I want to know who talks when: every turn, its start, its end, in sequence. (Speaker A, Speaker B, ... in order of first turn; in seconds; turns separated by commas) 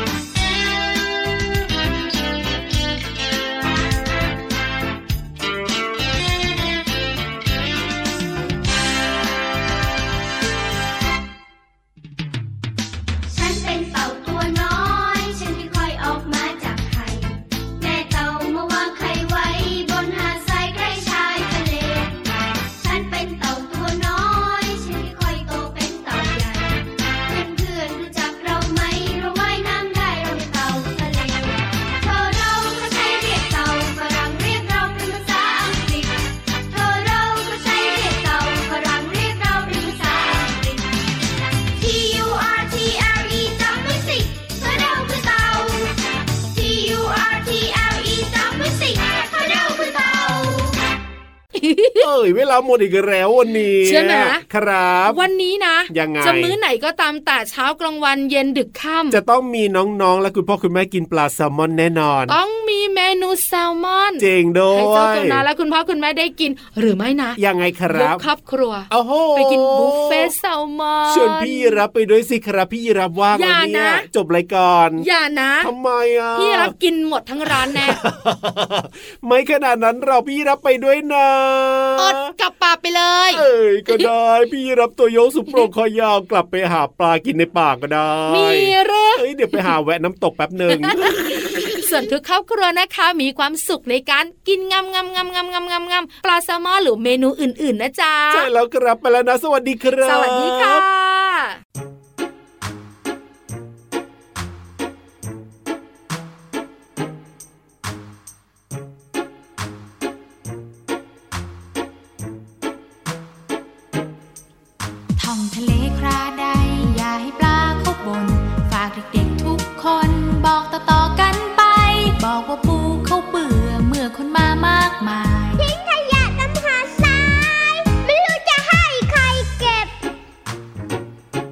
Speaker A: 13.3-22.2, Speaker A: 22.8-40.9, Speaker A: 41.8-50.8, Speaker B: 51.5-52.1, Speaker C: 52.0-55.2, Speaker B: 53.8-54.4, Speaker B: 55.1-59.2, Speaker C: 55.9-56.6, Speaker C: 59.1-62.4, Speaker B: 62.3-67.4, Speaker C: 64.2-65.4, Speaker C: 67.4-68.2, Speaker B: 67.9-71.8, Speaker C: 68.9-70.3, Speaker C: 71.1-75.1, Speaker B: 73.3-74.1, Speaker B: 75.0-75.7, Speaker C: 75.6-76.7, Speaker B: 76.3-78.0, Speaker C: 77.9-82.2, Speaker B: 82.0-84.1, Speaker C: 83.3-91.8, Speaker B: 88.3-89.7, Speaker B: 90.7-98.5, Speaker C: 98.3-100.8, Speaker B: 100.0-101.6, Speaker D: 115.2-125.6, Speaker E: 125.6-129.9